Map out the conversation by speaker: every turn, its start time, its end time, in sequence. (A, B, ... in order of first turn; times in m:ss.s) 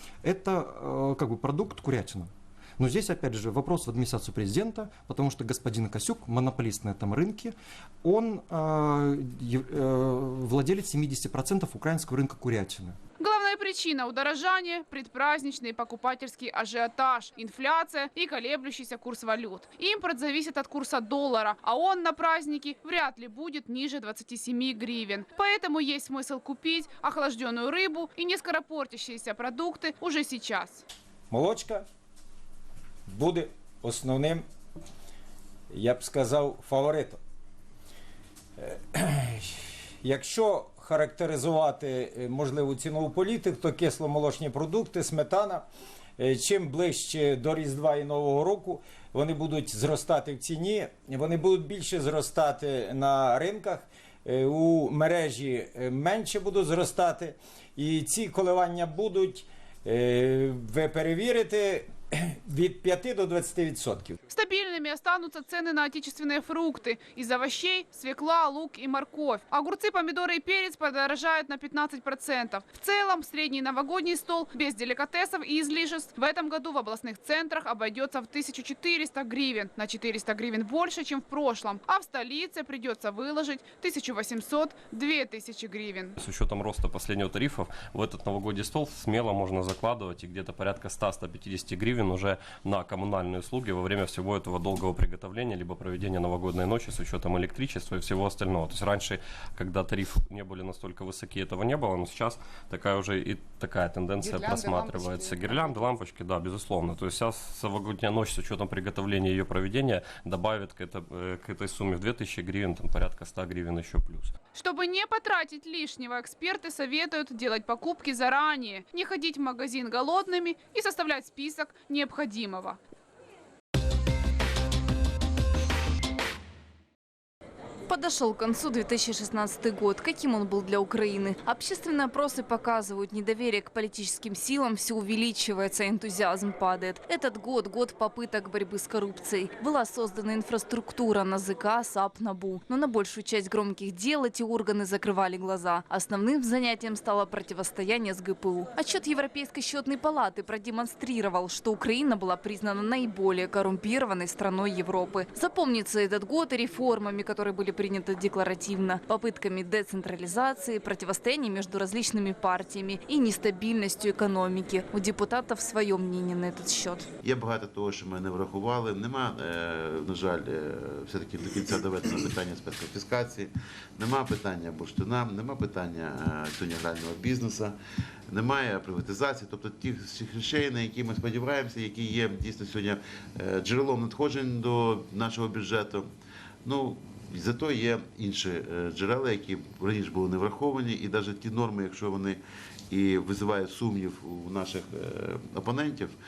0:00.2-0:13.0 A
0:13.2-0:30.8 B
0:31.3-0:31.8 C
0:33.1-0:34.4 C
0:35.7-0:37.2 C
0:38.6-0:45.6 C
0:46.2-1:04.2 C
1:04.3-1:26.1 B
1:26.2-1:54.3 D
1:44.2-1:45.6 B
1:54.5-2:02.8 B
2:07.9-2:47.0 E
2:47.2-2:57.8 F
2:58.3-3:06.1 F
3:06.6-3:16.1 F